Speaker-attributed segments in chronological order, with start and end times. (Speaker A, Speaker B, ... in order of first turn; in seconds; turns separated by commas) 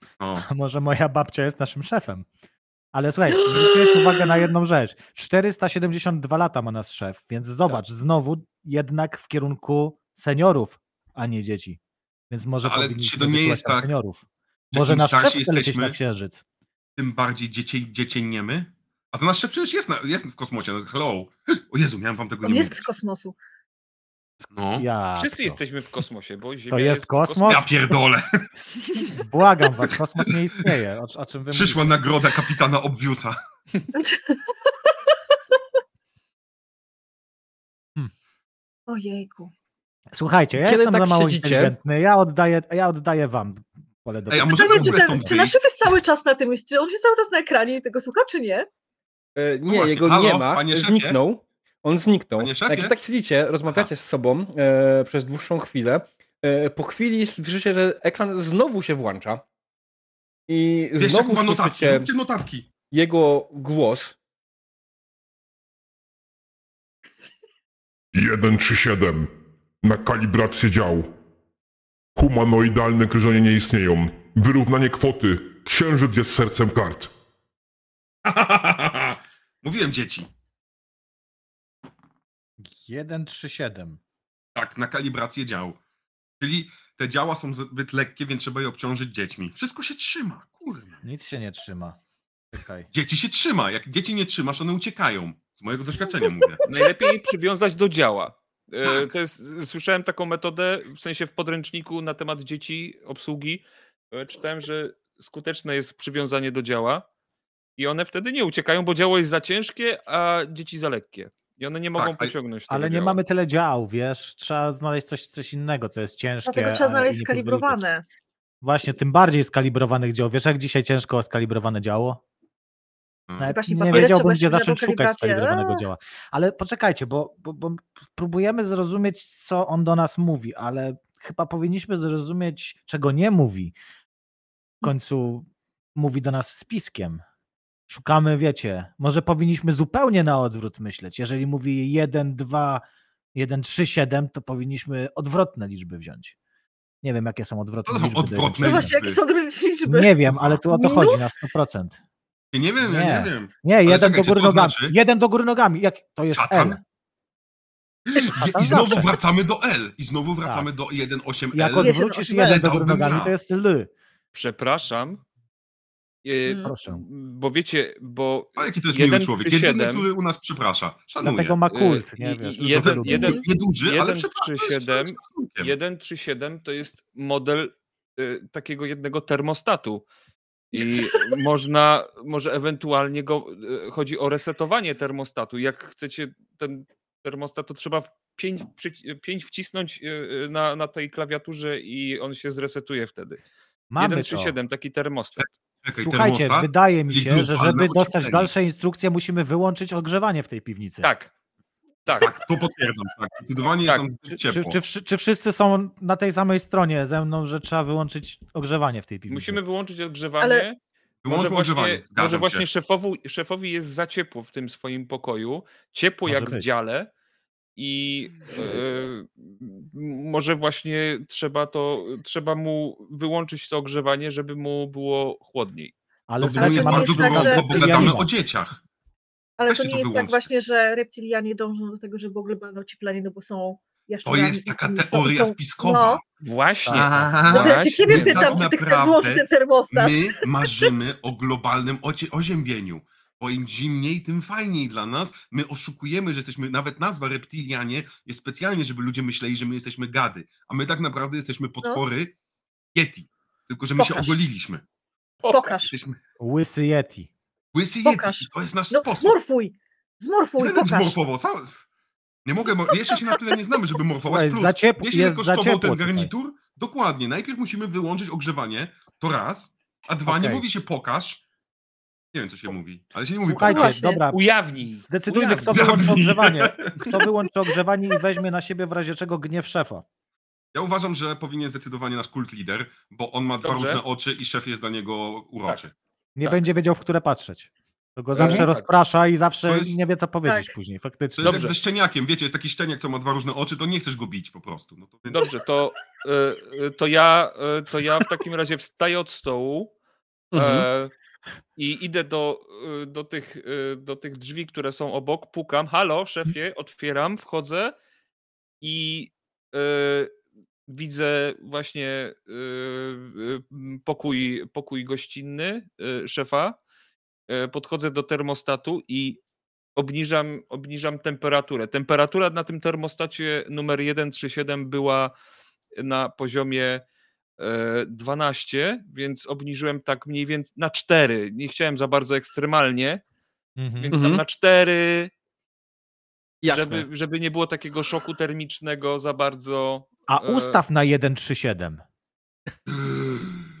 Speaker A: 0.2-0.5, Speaker B: 0.4-2.2, Speaker B: 2.9-11.8, Speaker C: 3.4-4.5, Speaker B: 12.3-14.2, Speaker A: 12.6-13.9, Speaker A: 14.7-15.9, Speaker B: 14.7-16.4, Speaker A: 17.0-22.8, Speaker C: 22.4-23.4, Speaker A: 24.5-24.9, Speaker B: 24.8-25.6, Speaker D: 25.1-27.6, Speaker B: 26.7-27.7, Speaker A: 27.5-28.5, Speaker B: 29.1-32.0, Speaker A: 29.8-30.7, Speaker A: 31.5-33.4, Speaker C: 33.9-34.5, Speaker C: 38.9-39.5, Speaker B: 40.1-45.2, Speaker E: 40.6-41.7, Speaker A: 44.3-45.6, Speaker C: 44.5-48.7, Speaker E: 49.4-59.4, Speaker A: 49.7-51.2, Speaker A: 52.4-53.0, Speaker E: 60.5-62.1, Speaker A: 61.0-62.7, Speaker E: 62.9-64.2, Speaker F: 68.1-69.3, Speaker F: 69.8-71.1, Speaker F: 72.1-77.1, Speaker A: 78.2-80.3, Speaker B: 82.6-84.0, Speaker A: 84.5-85.8, Speaker A: 86.4-91.0, Speaker B: 91.0-92.0, Speaker B: 92.5-92.9, Speaker A: 92.9-96.7, Speaker D: 96.7-107.0, Speaker D: 107.8-113.2, Speaker A: 112.0-112.3, Speaker B: 112.7-117.8, Speaker C: 116.5-118.0, Speaker B: 118.6-122.2, Speaker A: 123.3-124.1, Speaker B: 123.4-133.7, Speaker C: 123.5-125.8, Speaker B: 134.8-137.2, Speaker B: 137.9-142.8, Speaker B: 143.3-146.3, Speaker B: 147.0-148.9, Speaker A: 147.8-149.2, Speaker C: 148.6-150.1, Speaker B: 149.8-152.0, Speaker A: 150.2-150.6, Speaker C: 150.7-151.3, Speaker A: 152.5-154.9, Speaker B: 152.8-156.8, Speaker A: 156.3-156.8, Speaker A: 158.1-163.3, Speaker B: 158.3-159.1, Speaker B: 161.5-163.9, Speaker C: 161.8-162.5, Speaker D: 164.3-165.2, Speaker D: 166.2-170.1, Speaker C: 166.5-166.7, Speaker B: 166.6-167.0, Speaker A: 168.6-171.6, Speaker B: 171.2-173.4, Speaker D: 171.7-180.0, Speaker A: 172.7-175.7, Speaker C: 173.1-173.4, Speaker D: 180.7-193.4, Speaker B: 193.9-194.6, Speaker D: 194.0-195.5, Speaker A: 195.4-198.5, Speaker B: 195.9-201.1, Speaker D: 201.0-201.3, Speaker D: 202.0-202.3, Speaker A: 202.2-204.8, Speaker B: 204.3-209.6, Speaker D: 209.3-217.1, Speaker C: 210.4-210.7, Speaker A: 211.2-212.6, Speaker B: 216.3-216.7, Speaker D: 217.8-225.9, Speaker B: 226.3-228.3, Speaker A: 226.4-228.8, Speaker C: 226.6-228.1, Speaker C: 229.6-236.2, Speaker A: 229.7-230.5, Speaker A: 234.2-236.2, Speaker D: 236.4-238.6, Speaker B: 236.8-237.4, Speaker A: 236.9-252.3, Speaker C: 237.5-240.3, Speaker A: 252.9-254.8, Speaker C: 254.0-254.3, Speaker D: 255.4-255.7, Speaker C: 255.5-255.9, Speaker A: 255.8-256.2, Speaker B: 256.4-257.3, Speaker A: 257.7-259.4, Speaker C: 258.0-261.2, Speaker A: 260.6-261.8, Speaker A: 262.4-271.4, Speaker C: 263.1-263.4, Speaker B: 264.3-266.3, Speaker B: 270.3-270.6, Speaker A: 272.3-274.0, Speaker B: 273.4-280.0, Speaker C: 273.6-274.2, Speaker D: 274.3-276.2, Speaker A: 275.7-277.2, Speaker A: 280.7-285.9, Speaker D: 283.6-284.0, Speaker B: 286.4-291.7, Speaker D: 288.3-288.9, Speaker A: 289.7-290.0, Speaker A: 291.4-295.4, Speaker D: 291.4-291.8, Speaker D: 295.3-299.9, Speaker E: 300.5-300.9, Speaker D: 300.5-301.1, Speaker D: 301.8-307.9, Speaker D: 308.8-310.3, Speaker D: 310.9-316.8, Speaker D: 317.5-319.4, Speaker D: 319.9-325.3, Speaker D: 325.9-327.0, Speaker D: 327.6-333.2, Speaker B: 333.8-334.2, Speaker D: 334.0-335.3, Speaker E: 334.1-334.4, Speaker E: 336.6-337.1, Speaker D: 336.7-340.8, Speaker B: 340.3-342.0, Speaker A: 342.9-343.6